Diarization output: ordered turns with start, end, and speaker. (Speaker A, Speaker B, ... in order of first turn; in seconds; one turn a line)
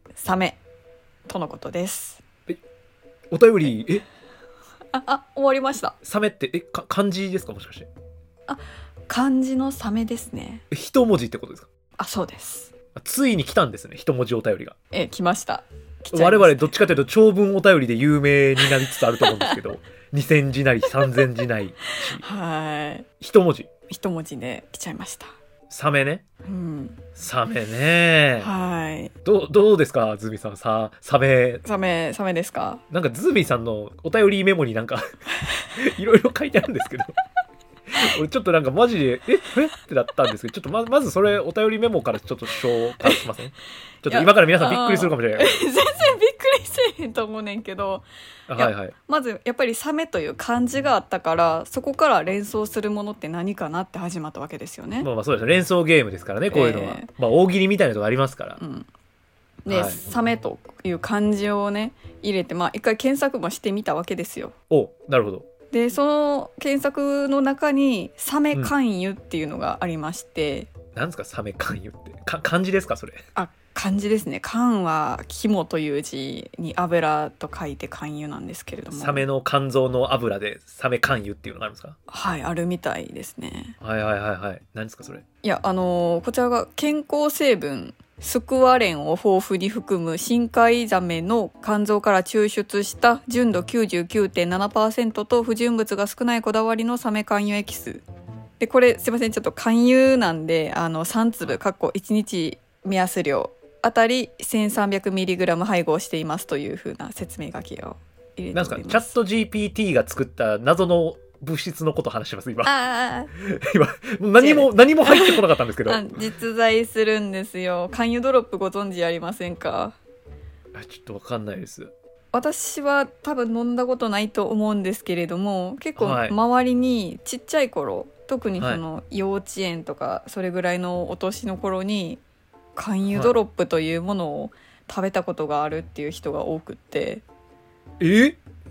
Speaker A: 0.2-0.6
Speaker A: 1.3-2.2
Speaker B: 3.3-4.0
Speaker A: 4.9-6.0
Speaker B: 6.0-7.9
Speaker A: 8.5-10.6
Speaker B: 10.7-11.7
Speaker A: 12.0-12.7
Speaker B: 12.9-14.8
Speaker A: 14.9-16.7
Speaker B: 16.1-22.2
Speaker A: 19.2-19.6
Speaker A: 22.2-23.1
Speaker B: 23.2-23.7
Speaker A: 23.9-25.4
Speaker B: 25.7-26.2
Speaker A: 26.5-27.0
Speaker B: 27.2-28.5
Speaker A: 28.4-29.1
Speaker B: 29.2-31.6
Speaker A: 31.6-32.8
Speaker B: 32.9-35.1
Speaker B: 35.8-37.1
Speaker B: 37.9-45.6
Speaker A: 44.1-48.0
Speaker B: 48.5-48.9
Speaker A: 48.6-55.1
Speaker B: 55.0-58.6
Speaker A: 56.5-57.1
Speaker A: 58.6-58.9
Speaker A: 59.6-64.5
Speaker B: 59.7-60.0
Speaker B: 64.7-65.5
Speaker A: 65.7-70.7
Speaker B: 71.0-73.2
Speaker A: 73.3-79.2
Speaker B: 78.9-82.0
Speaker A: 82.1-83.8
Speaker B: 83.8-85.2
Speaker A: 85.4-98.0
Speaker A: 98.6-109.2
Speaker B: 108.5-112.7
Speaker A: 112.6-113.3
Speaker B: 113.3-116.1
Speaker A: 114.4-120.0
Speaker B: 120.7-121.9
Speaker A: 122.3-132.2
Speaker B: 126.0-126.3
Speaker A: 132.8-137.2
Speaker B: 138.0-138.4